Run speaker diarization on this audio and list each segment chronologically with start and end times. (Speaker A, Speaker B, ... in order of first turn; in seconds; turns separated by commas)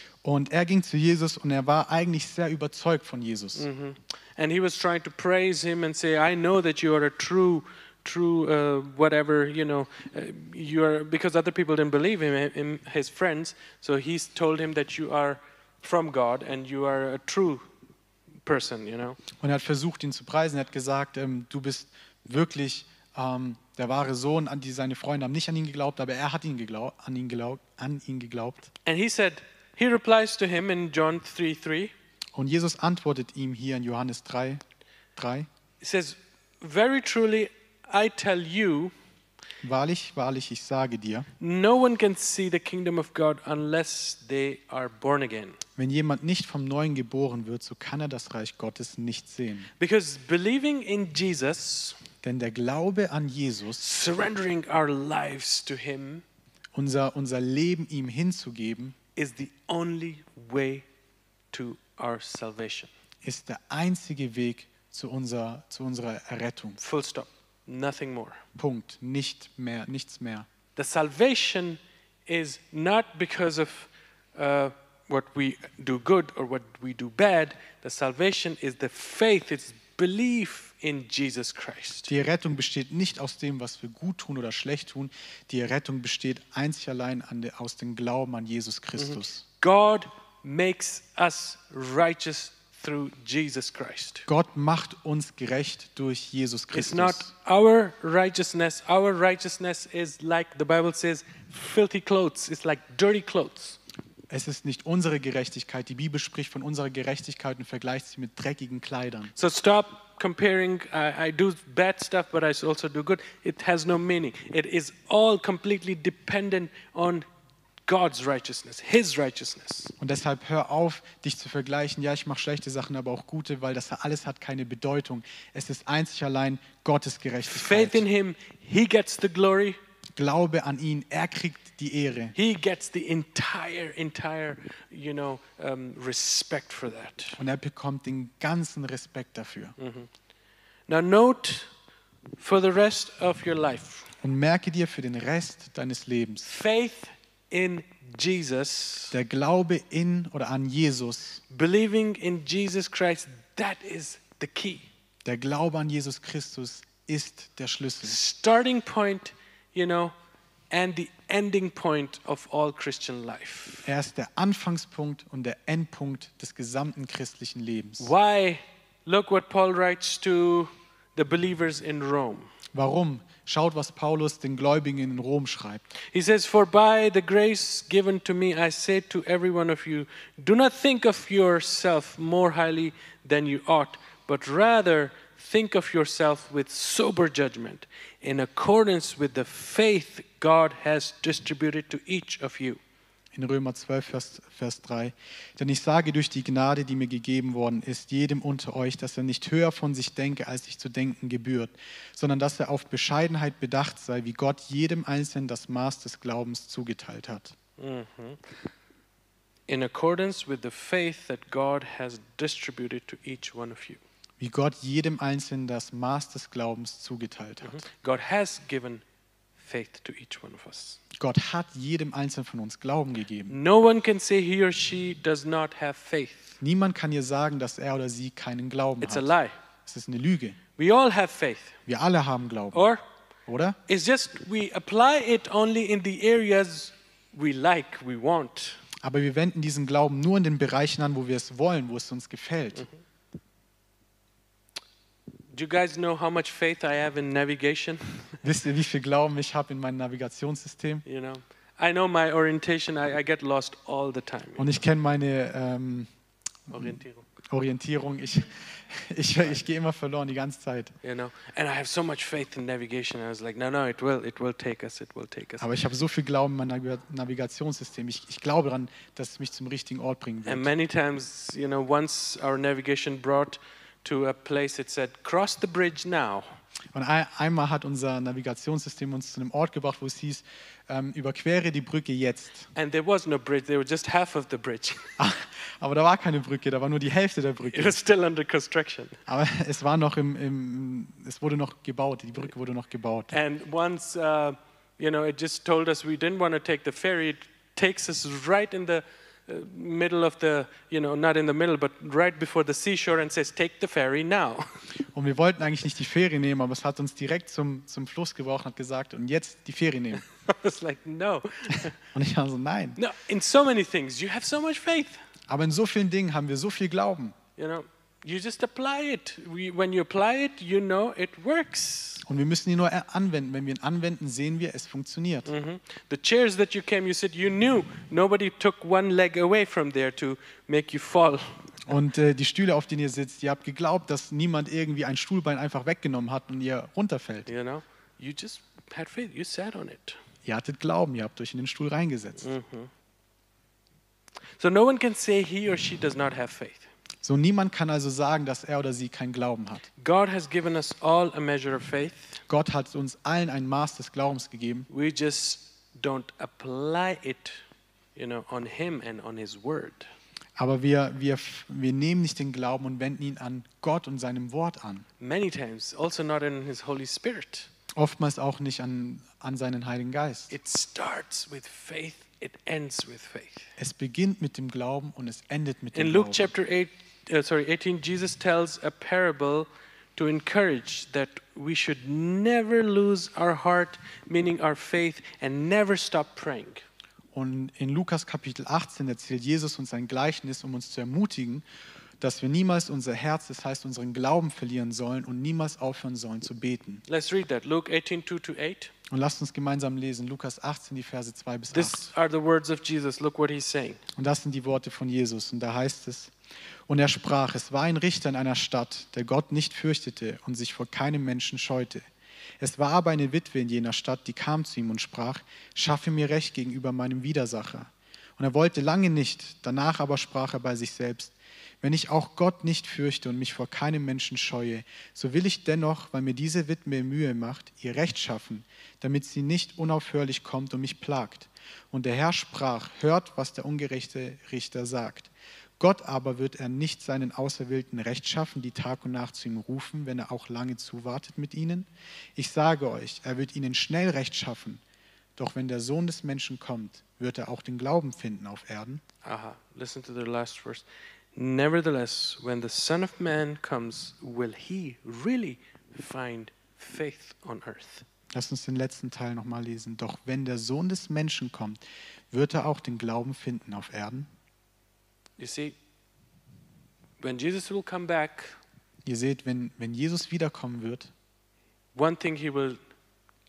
Speaker A: 0.2-3.6, Speaker B: 3.5-17.7, Speaker B: 18.4-19.2, Speaker A: 19.4-28.7, Speaker B: 28.9-31.9, Speaker A: 32.4-34.6, Speaker A: 35.1-35.5, Speaker B: 35.8-38.9, Speaker A: 39.6-41.3, Speaker B: 41.4-45.6, Speaker A: 45.8-49.7, Speaker B: 49.8-52.0, Speaker A: 52.2-53.8, Speaker B: 53.8-56.2, Speaker A: 56.7-59.0, Speaker B: 59.1-60.9, Speaker B: 61.5-62.9, Speaker A: 63.2-66.8, Speaker B: 66.8-68.4, Speaker A: 68.6-70.5, Speaker B: 70.8-82.1, Speaker A: 82.1-89.4, Speaker B: 89.0-94.3, Speaker A: 94.3-97.3, Speaker B: 96.7-103.8, Speaker A: 104.3-109.3, Speaker B: 109.4-117.2, Speaker B: 117.9-119.9, Speaker A: 120.0-128.0, Speaker B: 127.5-129.8, Speaker A: 130.2-132.3, Speaker B: 132.3-137.4, Speaker A: 137.4-139.8, Speaker B: 139.8-140.1, Speaker B: 140.9-141.7, Speaker B: 142.4-144.1, Speaker A: 144.2-146.5, Speaker B: 146.4-149.1, Speaker A: 149.1-151.4, Speaker B: 151.5-154.9, Speaker A: 155.2-158.2, Speaker B: 158.0-160.1, Speaker B: 160.7-163.9, Speaker A: 163.8-168.1, Speaker B: 168.0-172.5, Speaker A: 172.7-175.9, Speaker B: 176.1-192.8, Speaker A: 193.3-207.5, Speaker B: 207.8-208.4, Speaker B: 209.7-214.0, Speaker A: 214.4-217.8, Speaker B: 217.6-219.0, Speaker B: 219.6-221.0, Speaker A: 221.2-223.6, Speaker B: 223.5-226.6, Speaker A: 226.6-229.3, Speaker B: 229.0-229.6, Speaker A: 229.9-230.6, Speaker B: 230.8-231.8, Speaker A: 231.9-232.8, Speaker B: 232.7-233.0, Speaker A: 233.5-233.8, Speaker B: 233.9-238.8, Speaker A: 239.0-242.9, Speaker B: 245.5-248.4, Speaker A: 248.4-251.0, Speaker B: 251.0-254.8, Speaker A: 254.6-256.1, Speaker A: 256.7-256.9, Speaker B: 256.7-257.2, Speaker A: 257.5-260.9, Speaker B: 261.0-265.7, Speaker A: 265.6-270.7, Speaker B: 270.4-276.6, Speaker A: 276.9-282.7, Speaker B: 282.8-285.1, Speaker A: 285.2-288.0, Speaker B: 287.7-289.2, Speaker A: 289.3-293.3, Speaker B: 293.3-304.6, Speaker A: 305.1-310.2, Speaker B: 310.3-312.0, Speaker A: 312.1-313.0, Speaker B: 313.0-315.2, Speaker A: 315.5-317.4, Speaker B: 317.6-322.2, Speaker A: 322.2-325.5, Speaker B: 325.5-331.6, Speaker A: 331.9-337.5, Speaker B: 337.5-340.2, Speaker A: 340.4-342.5, Speaker B: 342.4-342.9, Speaker B: 344.6-346.9, Speaker A: 347.2-349.9, Speaker B: 350.0-352.4, Speaker A: 352.5-354.9, Speaker B: 354.9-357.6, Speaker B: 358.1-360.1, Speaker A: 360.6-365.1, Speaker B: 365.2-367.7, Speaker A: 368.0-370.5, Speaker B: 370.5-373.7, Speaker A: 373.8-376.5, Speaker B: 375.9-386.8, Speaker A: 387.3-391.6, Speaker A: 392.2-397.0, Speaker B: 397.1-398.9, Speaker A: 399.1-402.1, Speaker B: 401.7-404.0, Speaker A: 404.2-406.3, Speaker A: 406.9-412.0, Speaker A: 412.6-444.8, Speaker A: 445.4-449.0, Speaker B: 449.2-458.1, Speaker A: 458.3-461.8, Speaker A: 462.3-464.3, Speaker B: 465.4-465.8, Speaker B: 467.2-468.6, Speaker A: 469.0-471.1, Speaker B: 471.9-472.8